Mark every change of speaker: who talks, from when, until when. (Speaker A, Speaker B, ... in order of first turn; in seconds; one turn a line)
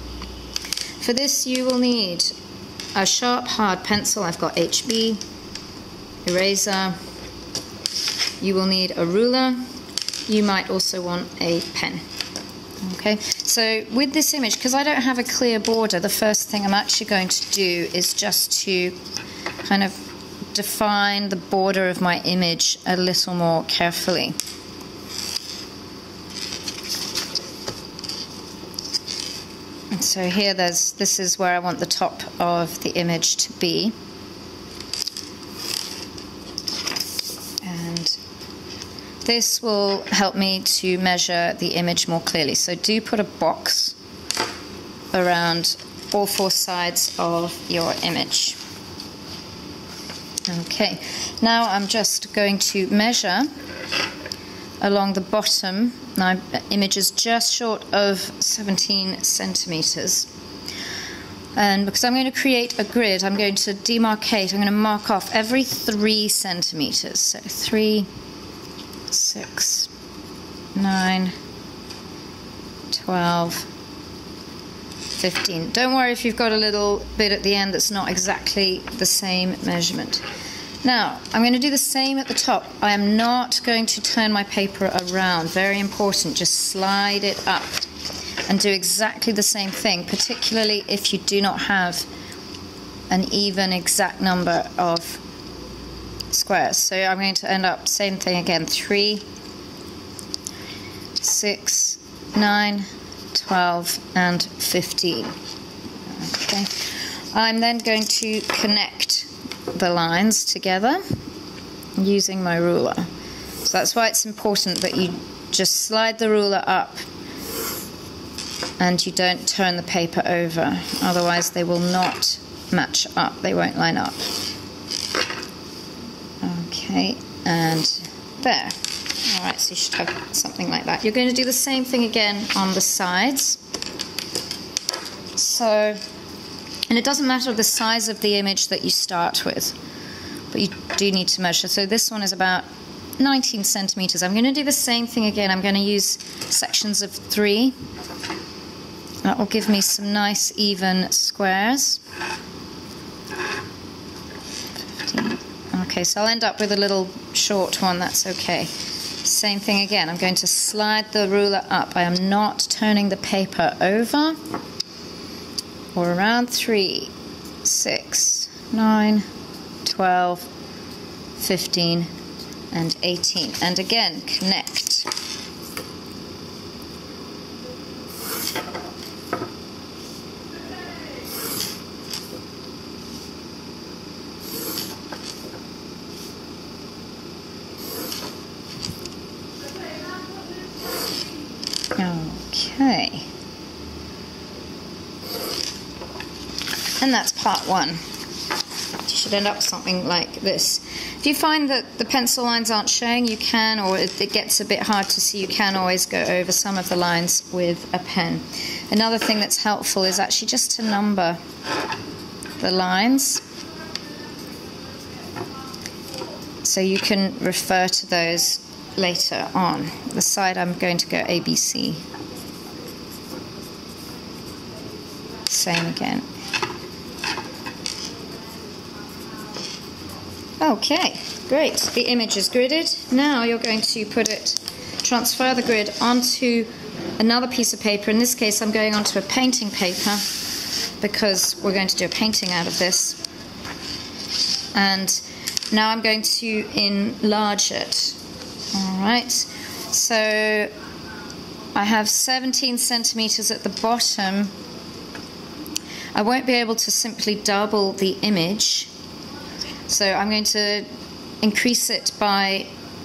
Speaker A: 1.0-2.3
Speaker A: 2.9-5.2
Speaker A: 6.2-7.0
Speaker A: 8.4-9.6
Speaker A: 10.3-12.0
Speaker A: 12.8-19.0
Speaker A: 19.6-24.4
Speaker A: 29.9-33.9
Speaker A: 37.6-38.2
Speaker A: 39.2-44.0
Speaker A: 45.1-48.6
Speaker A: 50.5-53.5
Speaker A: 54.8-60.3
Speaker A: 61.5-68.1
Speaker A: 69.1-69.9
Speaker A: 70.7-71.3
Speaker A: 72.9-73.7
Speaker A: 75.2-80.2
Speaker A: 80.8-87.9
Speaker A: 88.5-92.1
Speaker A: 93.1-95.2
Speaker A: 96.3-99.2
Speaker A: 101.2-105.3
Speaker A: 106.1-111.0
Speaker A: 112.0-113.1
Speaker A: 113.6-117.0
Speaker A: 118.8-124.2
Speaker A: 126.4-133.6
Speaker A: 135.3-136.0
Speaker A: 136.9-139.8
Speaker A: 140.5-142.7
Speaker A: 143.2-147.7
Speaker A: 149.2-152.0
Speaker A: 154.9-164.4
Speaker A: 165.9-167.1
Speaker A: 167.6-169.3
Speaker A: 169.8-170.5
Speaker A: 171.4-172.1
Speaker A: 172.7-175.1
Speaker A: 191.9-193.3
Speaker A: 197.0-198.0
Speaker A: 199.0-211.4
Speaker A: 212.6-213.4
Speaker A: 216.6-222.0
Speaker A: 225.4-226.2
Speaker A: 230.6-240.3
Speaker A: 241.0-243.2
Speaker A: 244.7-248.2
Speaker A: 248.7-250.7
Speaker A: 251.7-254.5
Speaker A: 256.1-258.9
Speaker A: 259.9-260.9
Speaker A: 261.4-262.7